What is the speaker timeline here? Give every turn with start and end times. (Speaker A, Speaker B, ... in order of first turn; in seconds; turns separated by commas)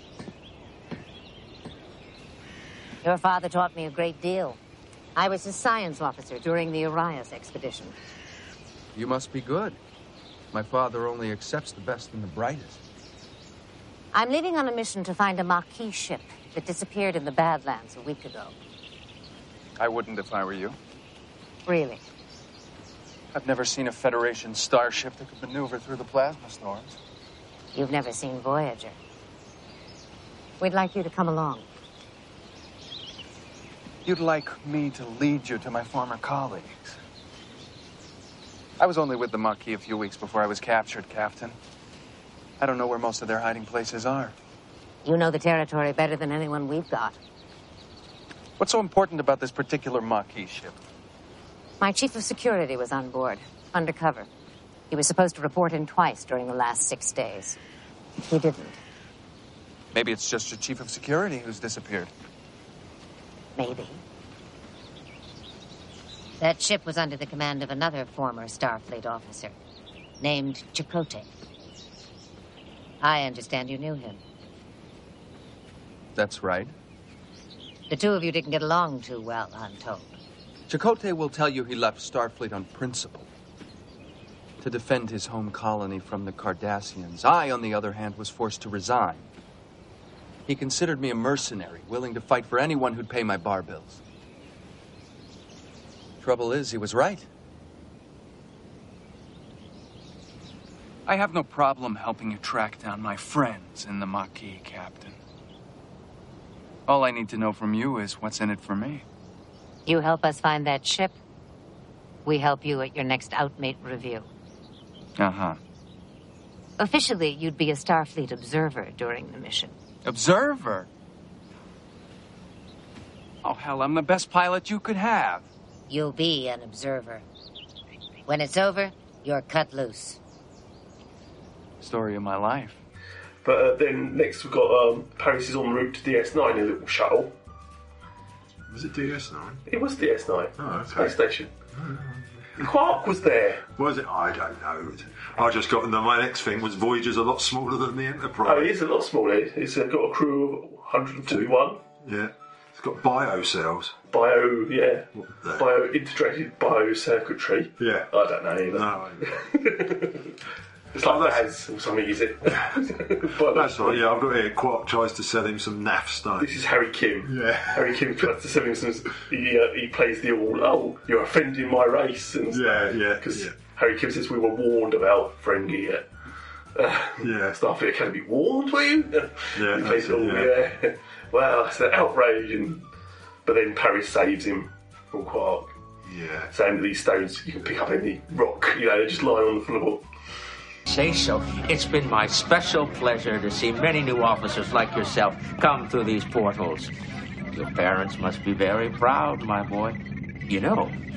Speaker A: 3.0-4.6, Speaker A: 5.2-8.0, Speaker B: 8.9-9.8, Speaker B: 10.5-12.8, Speaker A: 14.1-18.6, Speaker B: 19.8-20.8, Speaker A: 21.7-22.0, Speaker B: 23.3-27.0, Speaker A: 27.7-29.0, Speaker A: 30.6-31.6, Speaker B: 34.0-37.0, Speaker B: 38.8-41.6, Speaker B: 42.6-44.4, Speaker A: 45.0-47.2, Speaker B: 48.6-50.8, Speaker A: 51.8-54.3, Speaker A: 54.9-57.6, Speaker A: 58.2-58.8, Speaker B: 59.9-62.1, Speaker A: 63.6-64.0, Speaker A: 66.4-69.6, Speaker A: 70.2-71.3, Speaker A: 73.0-74.2, Speaker B: 76.2-76.7, Speaker A: 77.9-80.2, Speaker B: 80.7-83.3, Speaker B: 84.6-89.3, Speaker B: 90.5-94.0, Speaker B: 96.2-97.3, Speaker B: 101.1-105.2, Speaker B: 106.9-109.0, Speaker A: 109.9-111.2, Speaker A: 112.2-114.3, Speaker B: 115.2-115.6, Speaker A: 116.8-119.8, Speaker B: 120.0-120.9, Speaker B: 123.4-125.5, Speaker A: 125.9-127.2, Speaker A: 128.3-130.2, Speaker B: 131.8-132.8, Speaker C: 133.4-137.3, Speaker D: 138.7-139.6, Speaker C: 139.7-141.5, Speaker D: 140.6-141.2, Speaker D: 141.7-142.7, Speaker C: 142.6-143.7, Speaker D: 143.8-148.7, Speaker C: 148.4-151.8, Speaker D: 151.3-153.9, Speaker C: 154.1-160.3, Speaker D: 155.2-155.7, Speaker D: 157.8-158.1, Speaker D: 158.7-159.3, Speaker C: 160.9-164.1, Speaker D: 161.0-161.5, Speaker D: 162.5-162.8, Speaker D: 163.5-166.5, Speaker C: 166.4-176.1, Speaker D: 167.2-168.0, Speaker D: 172.5-173.5, Speaker C: 176.8-182.8, Speaker D: 177.2-177.6, Speaker D: 179.6-180.5, Speaker C: 183.4-185.7, Speaker D: 186.1-186.5, Speaker C: 186.5-190.0, Speaker E: 190.9-196.9, Speaker E: 197.5-200.0, Speaker E: 200.5-200.9